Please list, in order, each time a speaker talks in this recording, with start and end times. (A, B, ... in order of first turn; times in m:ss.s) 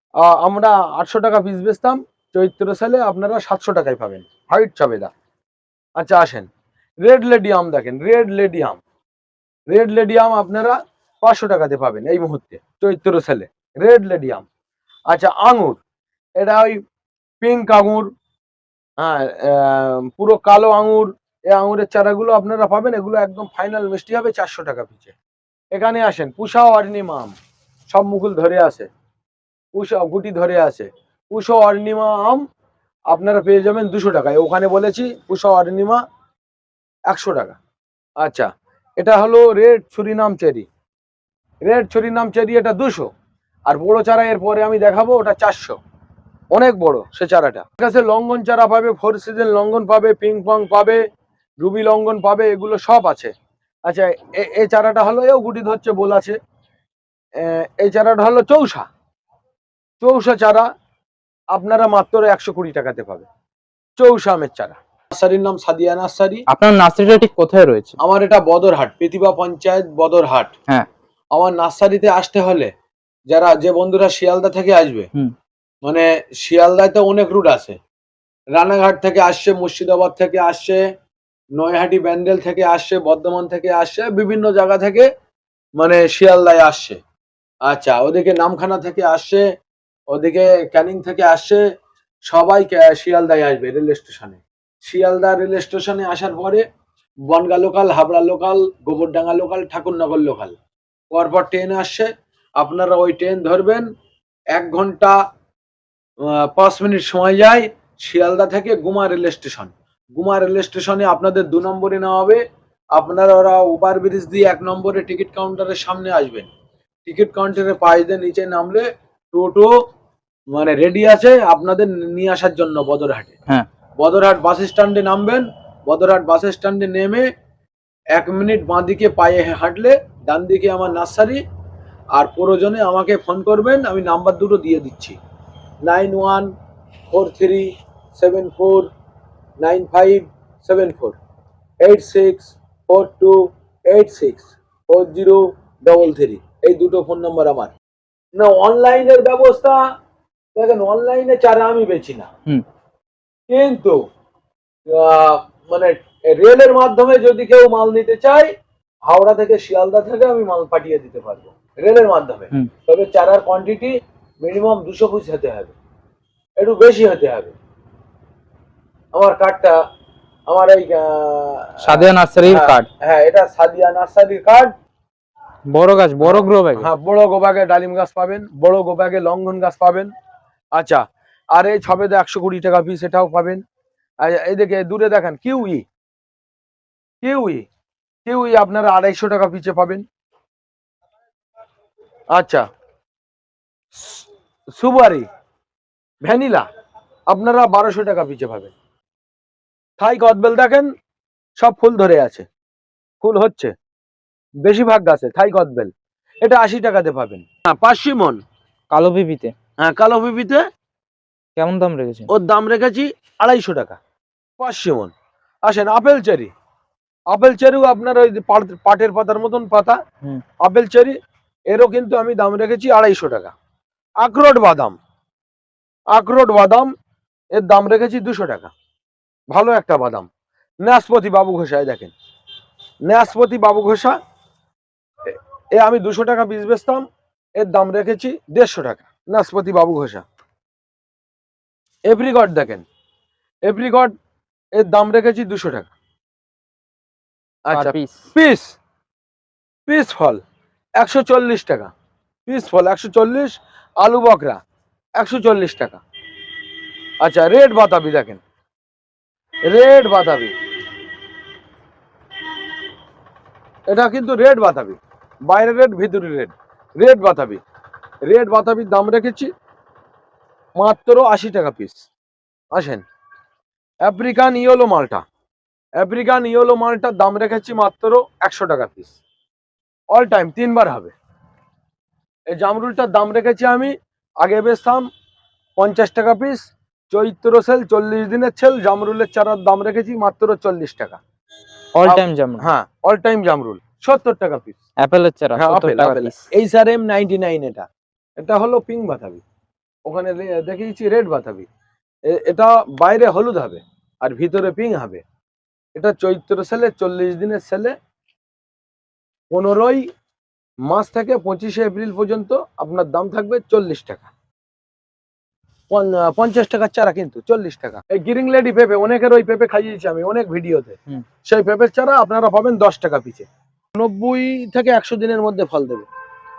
0:00.2-0:05.1 A
0:06.0-0:06.5 A
0:07.0-0:08.8 A
0:09.7-0:14.4 A
0:15.1-0:15.8 A
0:16.4-0:16.8 A
0:17.4-0:18.1 A
0:19.0-0:25.1 A
0:25.7-0:27.4 A
0:27.9-0:28.9 A
0:29.8-0:32.4 A
0:33.1-0:36.0 A
0:37.1-0:37.6 A
0:38.2-0:40.7 A
0:41.6-0:43.1 A
0:43.7-0:45.8 A
0:46.5-0:51.0 A
0:51.6-0:53.3 A
0:53.9-0:56.4 A
0:57.4-0:58.9 A
1:00.0-1:00.7 A
1:01.5-1:03.3 A
1:04.0-1:06.4 A
1:06.5-1:08.0 B
1:08.0-1:10.5 A
1:11.4-1:12.7 A
1:13.3-1:15.1 A
1:15.8-1:17.8 A
1:18.5-1:20.8 A
1:21.6-1:25.1 A
1:25.8-1:27.0 A
1:27.7-1:29.4 A
1:30.1-1:31.6 A
1:32.3-1:36.6 A
1:37.3-1:40.6 A
1:41.1-1:43.9 A
1:44.5-1:45.2 A
1:46.2-1:52.4 A
1:53.0-1:56.5 A
1:57.0-1:59.7 A
2:00.5-2:03.3 A
2:04.0-2:07.3 A
2:08.1-2:11.4 A
2:12.1-2:15.2 A
2:15.8-2:16.5 A
2:17.1-2:18.9 A
2:19.6-2:21.2 A
2:21.8-2:27.7 A
2:28.4-2:29.8 A
2:30.6-2:32.3 A
2:33.5-2:34.0 A
2:34.9-2:38.5 A
2:39.1-2:45.7 A
2:46.6-2:47.6 A
2:49.1-2:49.8 A
2:50.5-2:54.7 A
2:51.8-2:52.9 B
2:55.7-2:56.9 B
2:56.2-3:00.1 A
3:00.8-3:03.6 A
3:04.2-3:05.8 A
3:07.2-3:07.6 A
3:08.3-3:10.0 A
3:12.4-3:12.6 A
3:14.0-3:14.2 A
3:14.8-3:15.2 A
3:16.2-3:16.6 A
3:17.3-3:18.7 A
3:20.0-3:20.9 A
3:21.6-3:22.5 A
3:23.2-3:23.7 A
3:24.6-3:25.9 A
3:26.4-3:28.4 A
3:28.9-3:29.5 B
3:29.8-3:30.6 A
3:31.6-3:32.3 B
3:32.3-3:34.0 A
3:34.6-3:35.1 A
3:35.7-3:36.5 A
3:37.3-3:40.0 A
3:40.6-3:41.2 A
3:41.7-3:43.5 A
3:44.2-3:45.0 A
3:46.1-3:46.9 A
3:47.5-3:48.7 A
3:49.5-3:50.3 A
3:50.8-3:52.1 A
3:53.1-3:54.2 A
3:55.8-3:57.0 A
3:57.6-4:00.2 A
4:02.1-4:02.8 A
4:03.7-4:04.1 A
4:04.8-4:05.9 A
4:07.7-4:08.8 A
4:07.7-4:08.3 B
4:09.9-4:10.4 A
4:11.0-4:11.9 A
4:12.5-4:14.6 A
4:15.2-4:16.0 A
4:17.2-4:18.4 A
4:19.7-4:20.5 A
4:23.9-4:27.6 A
4:28.3-4:29.5 A
4:30.8-4:32.1 A
4:32.7-4:33.0 A
4:34.0-4:35.2 A
4:36.0-4:39.2 A
4:40.1-4:41.1 A
4:42.5-4:45.1 A
4:45.8-4:51.2 A
4:52.0-4:52.7 B
4:52.1-4:54.8 A
4:55.0-4:56.5 B
4:55.6-4:57.9 A
4:58.4-4:59.4 A
5:00.1-5:01.7 A
5:02.3-5:05.2 A
5:06.0-5:07.9 A
5:09.5-5:10.0 A
5:10.9-5:14.3 A
5:15.9-5:26.1 A